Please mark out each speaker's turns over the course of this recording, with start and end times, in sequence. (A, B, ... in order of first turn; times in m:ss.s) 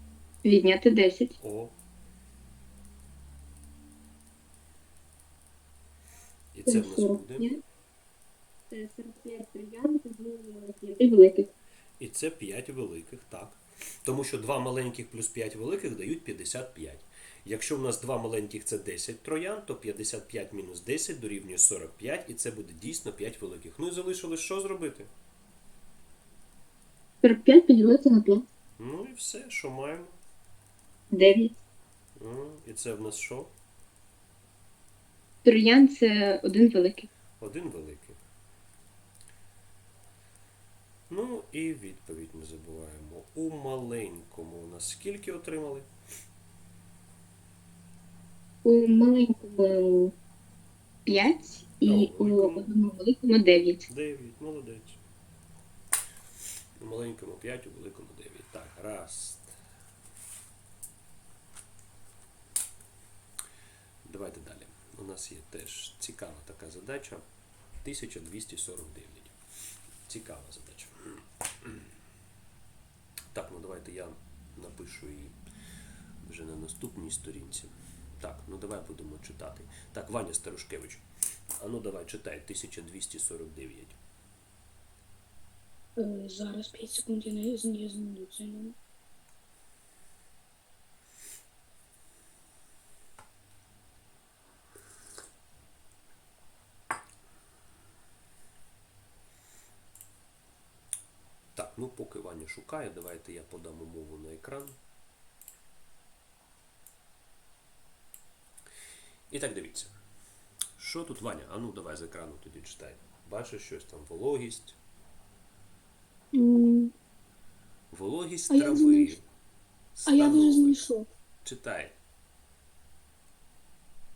0:00.4-0:01.3 A
0:01.4-0:01.7 B
0:06.5-0:07.5 B
0:06.6-0:07.6 A
0:08.7-0:11.5 A
0:12.0-0:25.1 B
0:27.2-0:28.4 A
0:28.8-0:30.2 B
0:31.1-0:31.6 A
0:32.2-0:33.5 B
0:35.4-0:37.1 A
0:37.4-0:38.2 B
0:41.1-0:45.9 B
0:48.6-0:50.1 A
0:51.0-0:53.9 A
0:51.8-0:52.7 B
0:53.9-0:55.0 B
0:56.8-0:59.6 B
1:04.0-1:07.2 B
1:07.8-1:09.3 B
1:10.1-1:11.9 B
1:13.3-1:15.4 B
1:16.2-1:24.0 B
1:26.0-1:28.8 C
1:41.5-1:44.8 B
1:49.3-1:49.9 B
1:50.8-1:54.8 B
1:56.3-1:56.9 C
1:57.9-1:59.2 B
1:58.5-1:59.1 C
1:59.9-2:00.9 B
2:00.1-2:01.1 C
2:01.4-2:01.9 B